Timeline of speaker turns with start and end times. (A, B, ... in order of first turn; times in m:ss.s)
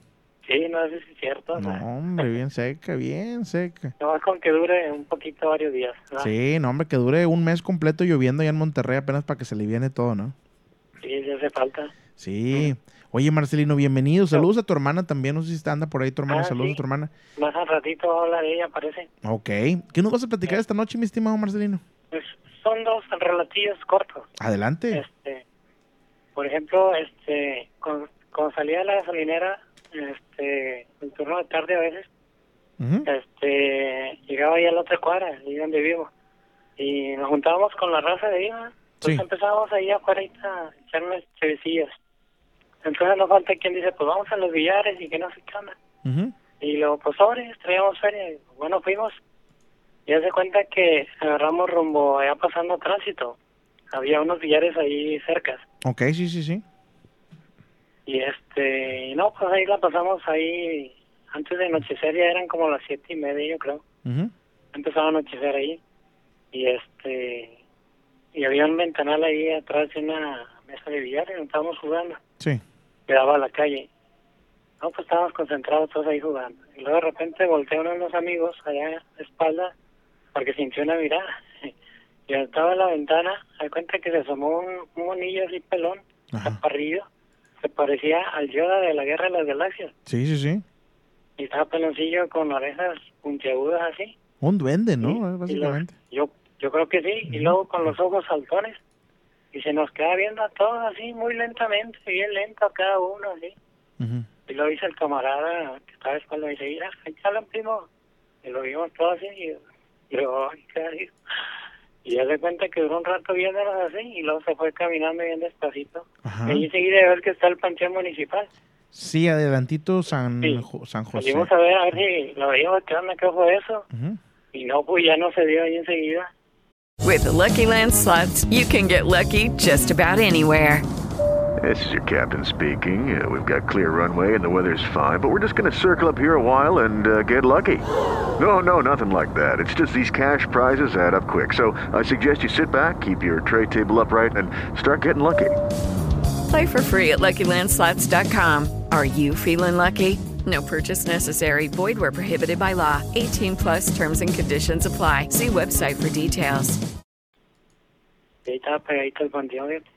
0:00.4-0:02.3 A
0:01.6-0:03.9 B
0:04.0-0:06.3 A
0:06.2-0:10.3 B
0:11.0-0:11.9 A
0:12.2-0:17.1 B
0:16.3-0:16.8 A
0:17.4-0:19.1 A
0:19.2-0:21.8 B
0:22.1-0:24.3 A
0:24.4-0:25.0 B
0:24.9-0:25.4 A
0:26.3-0:32.1 A
0:32.8-0:33.1 B
0:33.0-0:36.1 A
0:36.8-0:41.9 A
0:42.8-0:45.7 A
0:46.0-0:46.3 B
0:46.6-0:49.1 A
0:50.1-0:53.4 A
0:53.9-0:55.6 A
0:55.8-0:56.6 B
0:58.1-1:03.8 A
1:04.0-1:04.3 B
1:04.7-1:05.8 A
1:06.5-1:07.6 A
1:08.3-1:12.2 A
1:13.1-1:13.9 A
1:14.8-1:19.7 A
1:20.3-1:21.7 A
1:22.3-1:27.1 A
1:26.3-1:26.6 B
1:27.6-1:29.9 A
1:30.0-1:30.6 B
1:31.4-1:34.1 A
1:34.4-1:35.9 B
1:35.0-1:38.8 A
1:37.3-1:37.9 B
1:39.5-1:43.5 A
1:44.0-1:44.3 B
1:44.5-1:47.9 A
1:48.4-1:51.1 A
1:52.0-1:58.5 A
1:56.2-1:56.7 B
1:58.9-2:02.0 B
2:00.4-2:03.8 A
2:03.9-2:04.2 B
2:04.5-2:06.3 A
2:07.0-2:10.8 C
2:11.6-2:17.8 D
2:18.4-2:25.5 D
2:26.5-2:36.8 C
2:38.4-2:39.8 A